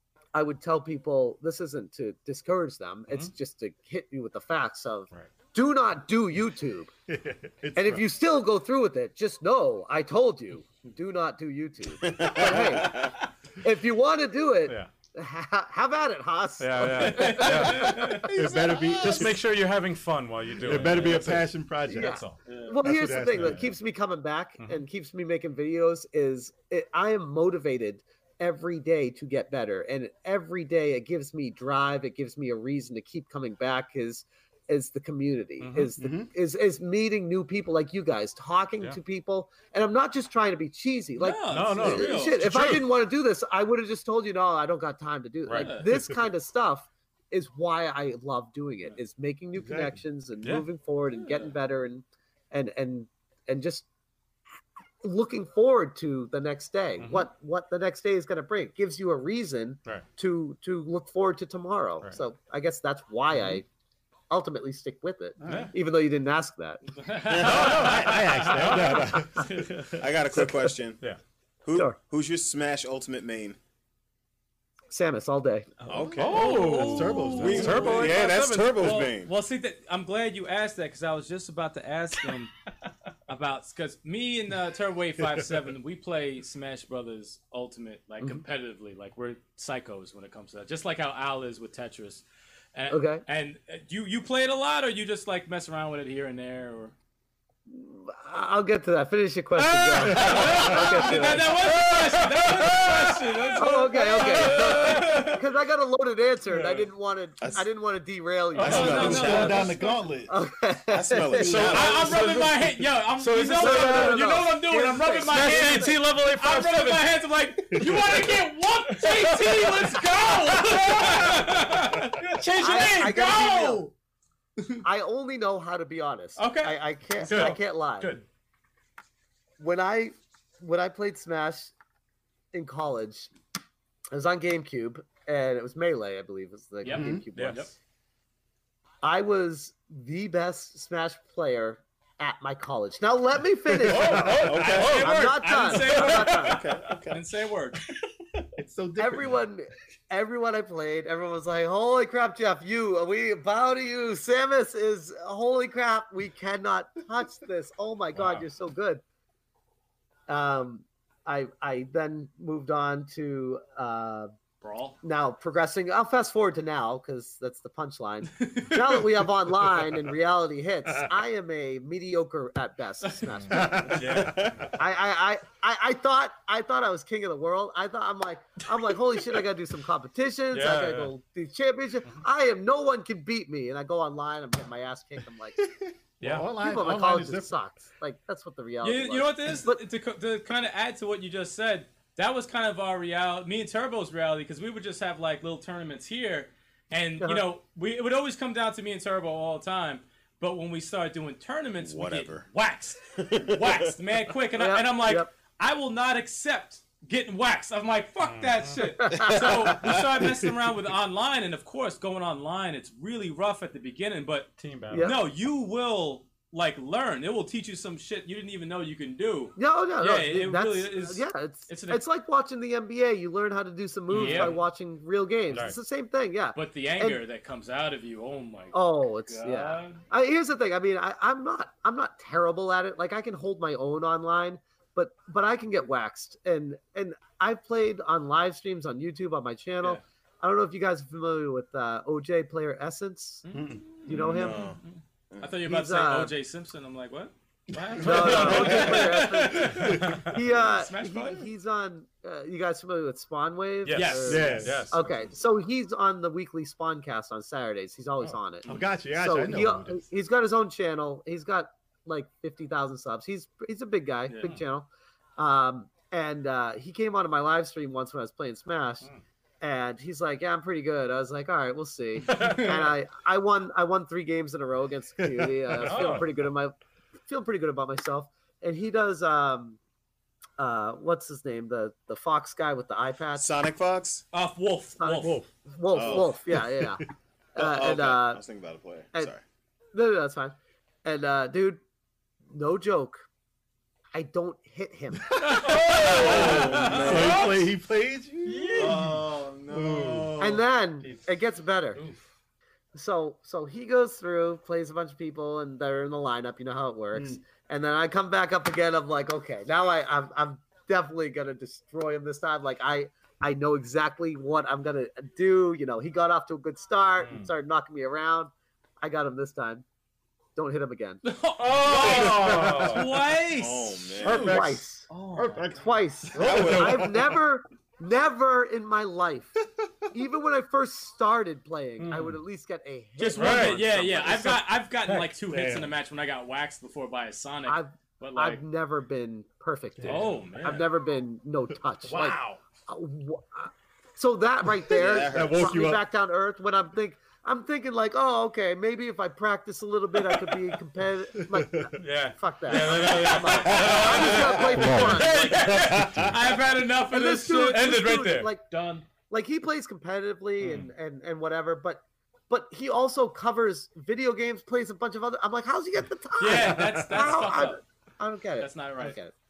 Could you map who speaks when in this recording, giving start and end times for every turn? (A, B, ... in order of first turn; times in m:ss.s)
0:00.3-0:06.9 A
0:07.1-0:08.1 B
0:07.8-0:18.3 A
0:12.0-0:13.2 C
0:16.6-0:18.3 D
0:17.0-0:18.3 E
0:18.2-0:19.4 B
0:18.4-0:19.1 C
0:19.0-0:22.4 D
0:20.6-0:22.2 B
0:21.9-0:53.9 A
0:22.8-0:23.8 B
0:35.6-0:35.9 D
0:36.0-0:36.3 B
0:41.2-0:42.6 E
0:41.5-0:42.9 D
0:45.5-0:45.8 D
0:45.6-0:45.9 E
0:45.9-0:46.2 B
0:49.6-0:50.0 B
0:50.4-0:50.7 D
0:51.1-0:51.5 E
0:55.0-1:03.6 A
0:57.0-0:57.3 D
1:04.3-1:06.8 A
1:05.4-1:05.7 B
1:05.5-1:05.7 D
1:07.0-1:09.7 E
1:07.3-1:08.0 C
1:07.4-1:09.9 D
1:07.5-1:10.0 B
1:10.0-1:11.0 C
1:11.6-1:13.6 C
1:14.9-1:15.7 A
1:15.8-1:18.1 B
1:15.9-1:19.3 C
1:16.2-1:18.2 E
1:16.2-1:19.1 D
1:18.8-1:22.5 E
1:23.3-1:36.9 E
1:25.2-1:25.5 B
1:32.9-1:33.2 A
1:37.7-1:41.5 A
1:39.6-1:45.4 D
1:40.2-1:40.8 B
1:40.2-1:45.4 E
1:43.6-1:49.5 A
1:46.5-1:46.8 D
1:47.4-1:47.7 C
1:48.6-1:49.7 D
1:48.6-1:50.1 E
1:48.6-1:49.6 C
1:48.6-1:50.3 B
1:50.3-1:51.8 A
1:50.9-1:52.4 C
1:51.4-1:52.5 D
1:51.5-2:03.9 E
1:53.2-1:54.4 D
1:53.4-1:56.0 A
1:55.1-1:57.1 D
1:57.7-1:58.3 B
1:57.7-1:58.4 D
1:58.9-2:01.5 D
2:02.6-2:03.9 A
2:04.8-2:08.2 A
2:06.4-2:08.2 E
2:07.2-2:08.2 D
2:09.6-2:11.7 A
2:12.5-2:13.3 A
2:14.1-2:17.7 A
2:16.8-2:17.7 E
2:16.9-2:17.2 B
2:17.4-2:17.6 D
2:19.0-2:26.6 A
2:23.8-2:26.2 D
2:24.3-2:27.8 E
2:24.4-2:24.9 C
2:25.9-2:27.2 C
2:28.6-2:29.4 B
2:29.0-2:39.0 A
2:38.2-2:38.4 D
2:40.3-2:44.3 A
2:44.6-2:45.0 E
2:45.0-2:54.1 A
2:48.4-2:49.1 E
2:53.0-2:53.3 E
2:53.5-2:54.7 B
2:54.0-2:54.6 D
2:54.1-2:54.5 C
2:54.7-3:05.7 A
3:00.5-3:01.1 D
3:05.6-3:07.6 B
3:06.2-3:06.5 D
3:06.5-3:09.8 A
3:08.8-3:42.0 E
3:21.8-3:22.5 C
3:23.2-3:23.9 C
3:24.6-3:25.3 A
3:28.2-3:29.0 D
3:28.8-3:29.5 A
3:29.1-3:30.2 C
3:30.2-3:30.5 B
3:34.6-3:35.1 D
3:34.9-3:35.2 A
3:39.6-3:47.2 A
3:44.1-3:44.6 E
3:44.1-3:44.6 D
3:45.5-3:45.8 D
3:46.6-3:50.0 E
3:48.7-4:03.4 A
4:03.4-4:03.8 E
4:03.5-4:04.5 B
4:04.0-4:04.7 A
4:04.1-4:04.8 C
4:04.4-4:11.5 E
4:05.6-4:06.3 A
4:07.9-4:10.4 B
4:08.0-4:29.1 A
4:13.9-4:15.2 D
4:13.9-4:14.8 E
4:14.3-4:15.2 B
4:18.7-4:20.0 B
4:24.3-4:24.6 E
4:29.6-4:36.8 A
4:32.3-4:32.8 E
4:32.3-4:32.8 D
4:35.2-4:36.5 B
4:35.8-4:36.3 D
4:37.3-4:39.8 A
4:40.6-4:43.5 A
4:43.4-4:44.2 C
4:44.3-4:45.4 E
4:45.0-4:48.4 A
4:45.9-4:46.3 C
4:46.5-4:47.0 B
4:47.6-4:49.4 C
4:49.9-4:51.8 A
4:52.5-4:53.2 A
4:54.1-4:55.4 A
4:55.3-5:00.6 B
4:55.4-4:57.6 E
4:55.6-4:57.2 D
4:55.9-4:57.6 C
4:58.4-4:59.0 E
4:58.7-5:00.6 C
5:00.4-5:02.0 A
5:02.9-5:19.8 A
5:07.1-5:07.4 B
5:17.2-5:17.5 D
5:20.6-5:21.2 A
5:21.2-5:25.8 E
5:21.6-5:23.2 D
5:21.9-5:23.0 A
5:22.0-5:23.0 B
5:23.4-5:24.6 C
5:24.2-5:25.1 A
5:24.3-5:24.8 D
5:25.3-5:25.8 B
5:25.7-5:29.5 A
5:26.3-5:27.1 C
5:26.3-5:27.4 B
5:26.4-5:26.8 D
5:30.1-5:34.6 A
5:32.0-5:32.4 D
5:33.2-5:38.6 E
5:33.3-5:33.8 D
5:35.4-5:35.9 B
5:37.7-5:55.7 A
5:40.0-5:40.3 B
5:40.0-5:40.9 E
5:42.1-5:42.6 D
5:44.9-5:45.8 C
5:45.0-5:46.0 B
5:51.4-5:52.0 B
5:52.0-5:56.1 D
5:52.8-5:59.1 E
5:54.4-5:55.2 B
5:55.8-5:56.3 B
5:57.1-6:09.3 A
5:57.7-5:58.5 D
6:00.6-6:00.9 D
6:06.4-6:07.8 E
6:06.5-6:07.3 B
6:08.6-6:09.2 E